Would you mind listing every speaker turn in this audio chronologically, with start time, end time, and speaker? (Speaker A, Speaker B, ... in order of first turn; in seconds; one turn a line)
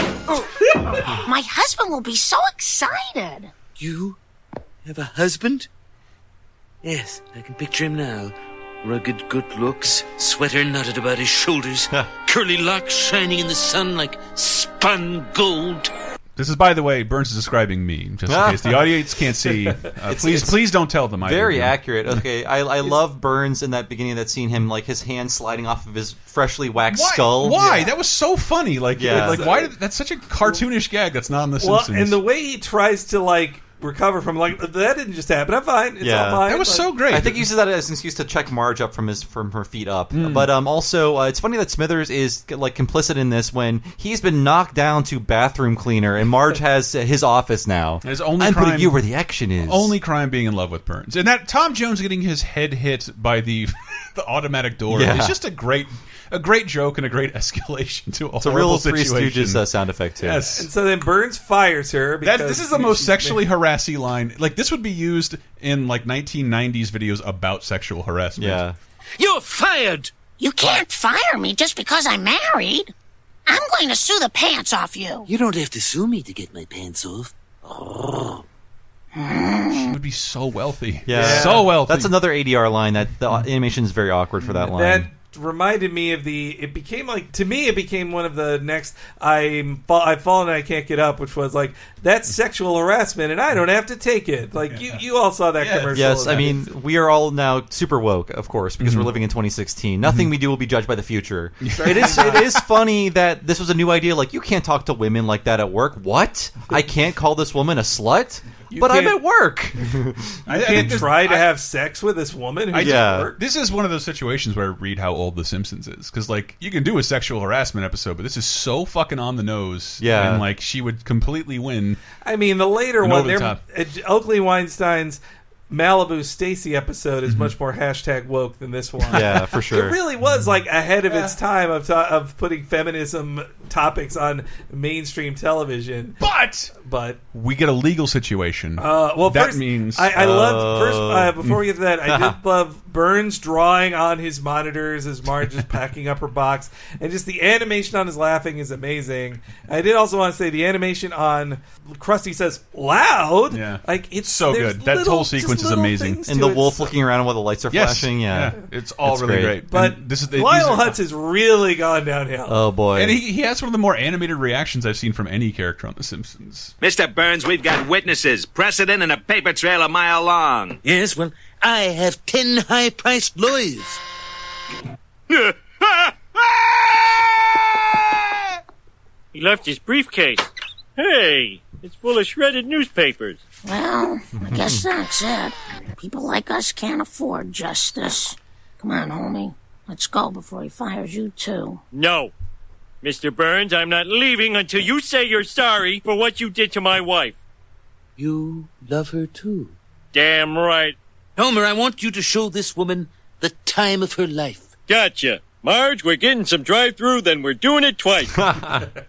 Speaker A: 0.9-3.5
Speaker B: 3.8-4.2
Speaker B: 4.8-5.7
Speaker B: 6.8-15.9
Speaker C: 16.4-22.1
Speaker D: 18.3-18.8
Speaker D: 20.1-20.6
Speaker D: 21.2-27.8
Speaker C: 26.9-32.2
Speaker E: 27.4-27.9
Speaker D: 28.9-29.6
Speaker E: 29.1-29.7
Speaker E: 31.6-37.0
Speaker D: 36.0-36.5
Speaker C: 36.5-37.5
Speaker D: 37.1-49.9
Speaker C: 40.1-40.5
Speaker C: 48.0-49.0
Speaker C: 49.6-59.6
Speaker D: 54.9-55.4
Speaker D: 58.4-60.5
Speaker C: 60.2-60.7
Speaker E: 60.5-63.4
Speaker C: 62.2-68.6
Speaker D: 68.4-68.8
Speaker B: 69.2-70.8
Speaker A: 70.4-72.9
Speaker A: 73.5-75.3
Speaker B: 75.3-78.4
Speaker A: 79.1-79.9
Speaker C: 79.7-82.2
Speaker D: 81.0-85.1
Speaker E: 81.1-81.7
Speaker E: 84.6-96.6
Speaker C: 94.7-95.0
Speaker C: 95.6-96.5
Speaker D: 95.9-110.8
Speaker C: 98.8-99.1
Speaker C: 101.6-102.7
Speaker E: 101.8-102.5
Speaker E: 108.7-109.2
Speaker C: 110.5-111.5
Speaker E: 110.5-113.3
Speaker C: 112.7-122.0
Speaker D: 112.8-113.3
Speaker D: 120.0-120.5
Speaker E: 122.2-136.2
Speaker C: 123.0-123.6
Speaker C: 127.2-127.5
Speaker C: 129.0-129.6
Speaker D: 129.1-130.0
Speaker C: 131.1-131.4
Speaker C: 136.2-136.7
Speaker E: 136.8-137.2
Speaker C: 137.3-140.2
Speaker E: 138.8-156.9
Speaker D: 140.1-141.5
Speaker D: 142.0-142.4
Speaker C: 153.5-156.2
Speaker D: 156.3-159.6
Speaker C: 157.7-161.0
Speaker E: 159.7-162.6
Speaker D: 162.5-163.2
Speaker C: 162.9-166.7
Speaker F: 166.8-170.8
Speaker B: 170.8-174.0
Speaker G: 179.3-183.4
Speaker A: 183.6-191.8
Speaker D: 184.5-184.8
Speaker G: 191.9-192.3
Speaker G: 193.0-197.4
Speaker B: 198.2-199.7
Speaker G: 200.1-200.9
Speaker B: 201.3-204.7
Speaker G: 204.9-208.4
Speaker D: 208.5-208.8